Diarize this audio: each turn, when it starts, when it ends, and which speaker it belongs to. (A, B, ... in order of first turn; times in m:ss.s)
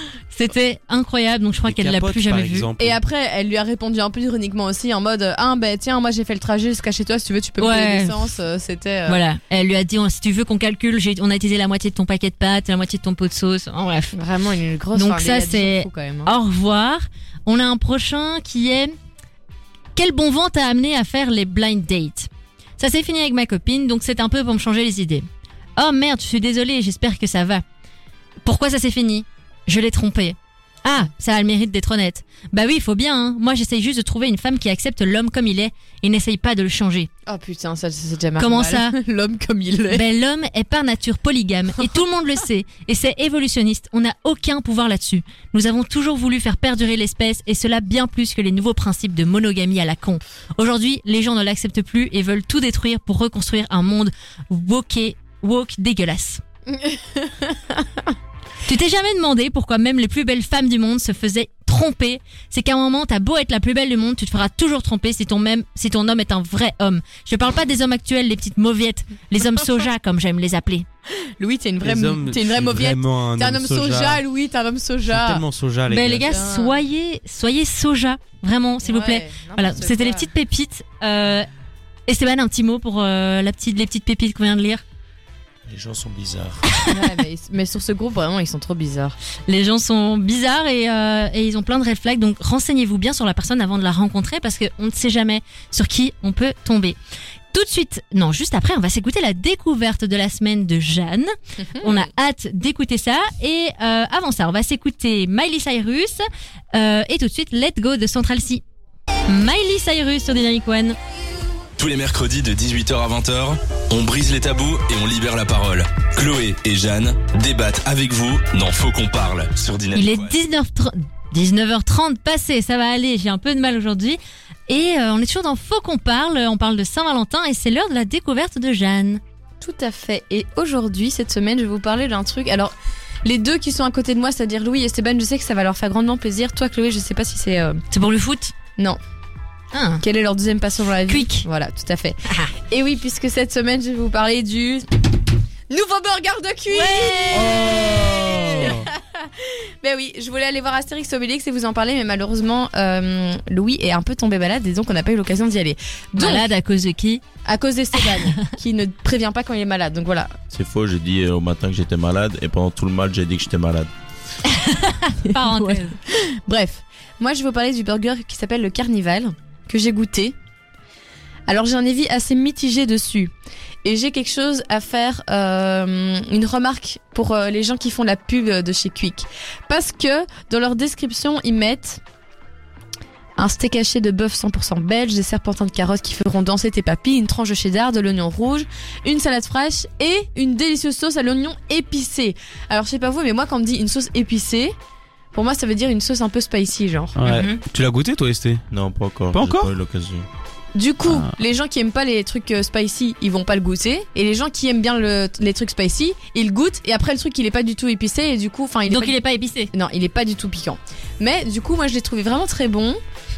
0:00.3-0:02.7 A
0:01.6-0:03.0 B
0:02.8-0:09.2 C
0:07.6-0:08.3 A
0:09.1-0:14.1 A
0:14.1-0:16.3 C
0:14.9-0:18.9 A
0:20.0-0:27.6 A
0:28.4-0:37.1 A
0:37.2-0:40.0 C
0:38.4-0:39.0 A
0:39.9-0:56.4 A
0:56.7-0:58.1 C
0:58.6-1:10.8 A
1:11.4-1:15.4 C
1:11.8-1:14.2 B
1:15.1-1:16.3 B
1:15.9-1:21.5 A
1:16.2-1:16.8 C
1:18.8-1:20.3 C
1:22.1-1:24.8 A
1:25.7-1:26.6 D
1:26.9-1:29.2 C
1:29.5-1:37.0 A
1:37.5-1:48.6 A
1:41.7-1:42.0 C
1:49.3-1:51.0 A
1:51.8-2:00.3 E
1:59.9-2:09.2 A
2:09.6-2:17.8 C
2:17.9-2:18.5 A
2:19.7-2:20.0 A
2:20.0-2:24.9 C
2:21.1-2:21.5 A
2:25.7-2:36.5 C
2:26.7-2:27.6 A
2:27.3-2:28.9 B
2:28.4-2:28.7 A
2:36.2-2:37.2 A
2:37.4-2:40.4 C
2:40.5-2:43.9 D
2:44.5-2:46.0 A
2:45.2-2:50.4 C
2:51.5-2:53.3 C
2:53.8-3:02.0 C
3:03.4-3:14.8 C
3:15.3-3:17.2 C
3:17.2-3:18.6 B
3:17.2-3:17.6 A
3:18.7-3:20.3 D
3:19.3-3:19.7 B
3:20.7-3:29.2 C
3:21.0-3:21.4 B
3:28.9-3:29.7 A
3:29.7-3:33.0 C